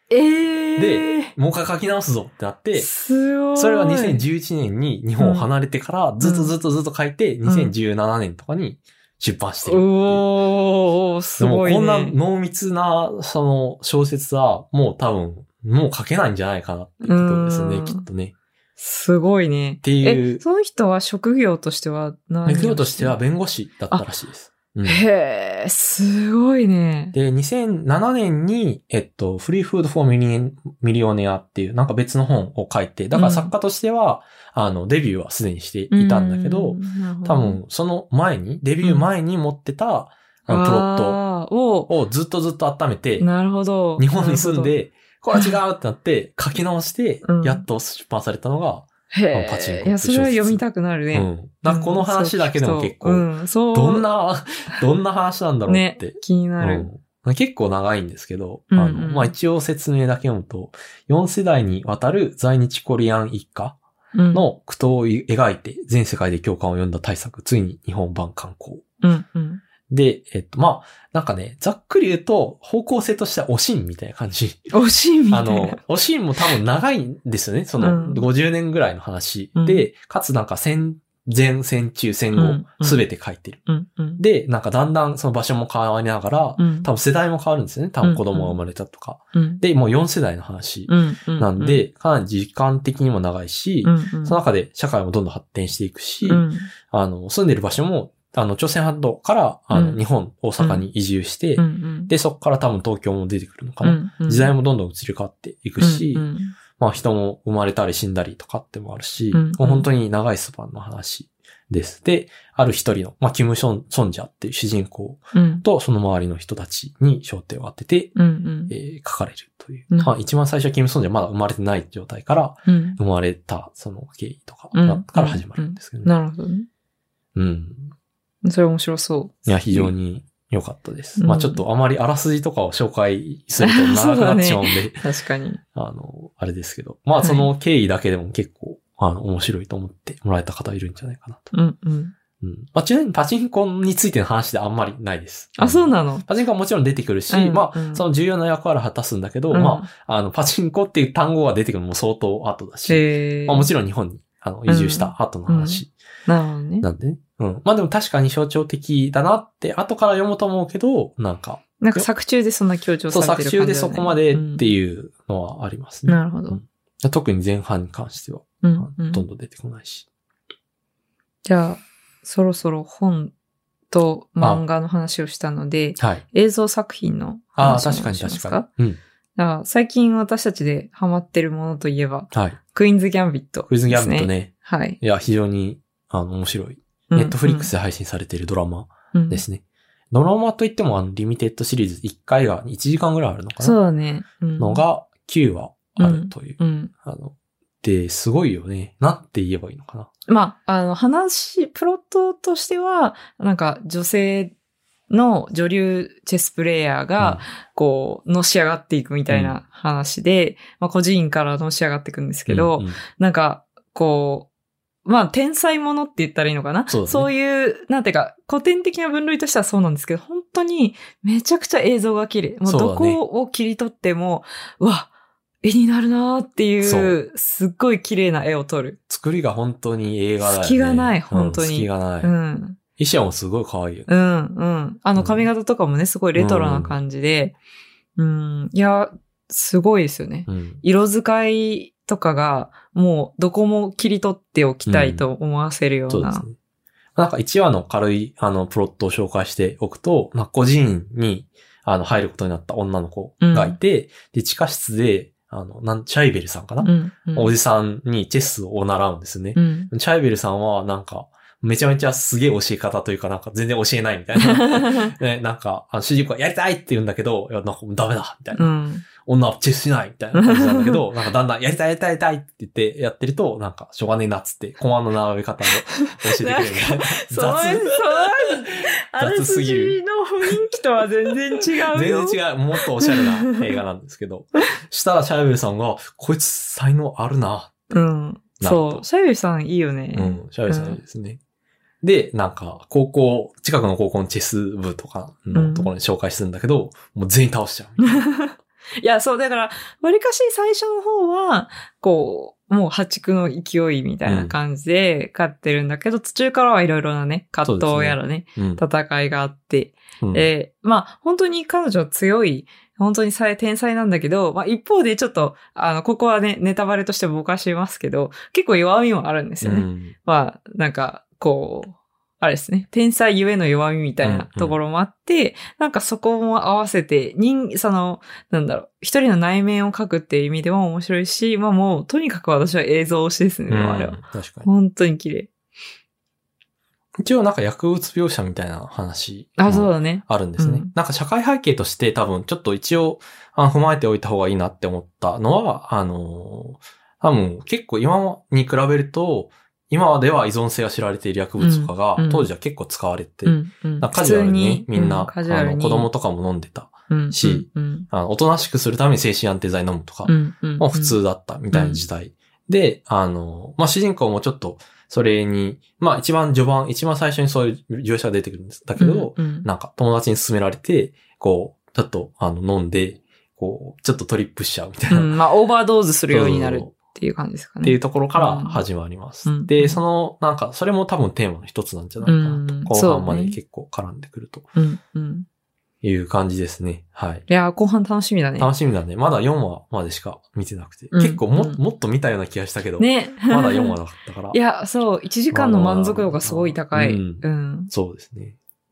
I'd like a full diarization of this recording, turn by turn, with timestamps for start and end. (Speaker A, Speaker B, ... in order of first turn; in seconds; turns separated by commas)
Speaker A: 0.1-1.3, Speaker B: 0.8-2.9, Speaker A: 2.7-4.2, Speaker B: 3.5-10.2, Speaker A: 5.2-5.5, Speaker A: 6.2-6.5, Speaker A: 7.5-7.7, Speaker A: 9.6-12.2, Speaker B: 11.4-18.4, Speaker A: 17.0-18.1, Speaker A: 18.8-23.1, Speaker B: 19.8-20.4, Speaker B: 22.5-25.0, Speaker A: 24.8-27.1, Speaker B: 27.1-41.2, Speaker A: 33.1-33.5, Speaker A: 35.9-37.6, Speaker A: 40.5-41.9, Speaker B: 41.9-43.3, Speaker A: 43.2-44.7, Speaker B: 44.0-63.8, Speaker A: 47.2-47.7, Speaker A: 49.1-54.1, Speaker A: 55.7-56.9, Speaker A: 58.7-59.3, Speaker A: 64.1-64.5, Speaker B: 64.3-68.9, Speaker A: 69.0-69.6, Speaker B: 69.9-74.7, Speaker A: 74.7-75.8, Speaker B: 75.3-83.6, Speaker A: 77.8-78.3, Speaker A: 79.6-79.9, Speaker A: 82.3-83.0, Speaker A: 83.7-84.2, Speaker B: 84.2-118.2, Speaker A: 86.6-86.9, Speaker A: 88.0-88.6, Speaker A: 89.3-89.6, Speaker A: 90.9-91.8, Speaker A: 93.8-94.4, Speaker A: 96.2-96.7, Speaker A: 99.7-100.0, Speaker A: 100.6-100.9, Speaker A: 101.6-102.1, Speaker A: 103.8-104.5, Speaker A: 105.8-106.6, Speaker A: 109.3-109.9, Speaker A: 115.3-115.7, Speaker A: 118.2-118.7, Speaker B: 118.7-126.1, Speaker A: 122.7-123.0, Speaker A: 124.7-126.7, Speaker B: 127.3-127.9, Speaker A: 128.4-129.9, Speaker B: 129.5-135.1, Speaker A: 131.2-131.6, Speaker A: 133.6-135.6, Speaker B: 135.7-141.5, Speaker A: 137.2-137.5, Speaker A: 141.5-142.1, Speaker B: 142.4-155.9, Speaker A: 145.6-146.3, Speaker A: 147.3-148.0, Speaker A: 149.5-149.9, Speaker A: 152.9-153.7, Speaker A: 154.7-156.9, Speaker B: 156.8-162.1, Speaker A: 161.8-164.7, Speaker B: 163.1-170.1, Speaker A: 166.1-166.6, Speaker A: 168.6-169.2, Speaker A: 171.4-173.3, Speaker A: 173.9-178.7, Speaker B: 176.0-176.2, Speaker B: 177.6-179.0, Speaker A: 179.4-185.0, Speaker B: 182.3-182.6, Speaker B: 183.7-193.8, Speaker A: 187.1-187.7, Speaker A: 189.1-189.4, Speaker A: 193.6-194.8, Speaker B: 194.6-200.1, Speaker A: 196.0-196.9, Speaker A: 200.3-204.5, Speaker A: 205.1-214.5, Speaker B: 207.2-207.4, Speaker B: 209.3-209.6, Speaker B: 212.5-213.0, Speaker A: 215.1-225.1, Speaker B: 216.9-217.3, Speaker B: 222.7-223.2, Speaker A: 225.6-229.0, Speaker B: 226.8-227.2, Speaker B: 229.1-232.3, Speaker A: 230.4-232.8, Speaker B: 233.0-234.1, Speaker A: 234.1-237.6, Speaker B: 235.2-235.5, Speaker B: 236.3-237.0, Speaker A: 238.2-246.4, Speaker B: 240.5-240.8, Speaker B: 244.9-245.3, Speaker B: 246.1-246.6, Speaker B: 247.2-280.6, Speaker A: 253.4-253.8, Speaker A: 256.8-257.5, Speaker A: 259.6-259.9, Speaker A: 264.4-265.1, Speaker A: 268.6-269.1, Speaker A: 270.4-271.1, Speaker A: 276.1-283.6, Speaker B: 281.9-288.0, Speaker A: 287.9-291.0, Speaker B: 288.6-289.1, Speaker B: 290.1-291.4, Speaker B: 292.0-298.3, Speaker A: 295.5-295.9, Speaker A: 298.1-335.5, Speaker B: 304.3-304.5, Speaker B: 307.6-308.8, Speaker B: 310.2-310.5, Speaker B: 319.6-320.1, Speaker B: 324.2-324.8, Speaker B: 333.7-334.7, Speaker B: 337.2-375.4, Speaker A: 339.6-340.9, Speaker A: 351.6-352.5, Speaker A: 353.4-356.1, Speaker A: 357.1-358.1, Speaker A: 360.3-361.2, Speaker A: 361.7-362.0, Speaker A: 369.0-369.7, Speaker A: 375.1-378.8, Speaker B: 376.3-376.9, Speaker B: 377.8-384.7, Speaker A: 379.4-380.0, Speaker A: 382.2-383.6, Speaker A: 384.8-385.5, Speaker B: 386.0-387.4, Speaker A: 387.5-388.7, Speaker B: 388.6-394.6, Speaker A: 391.1-391.8, Speaker A: 393.0-394.0, Speaker A: 394.5-397.9, Speaker B: 395.5-398.6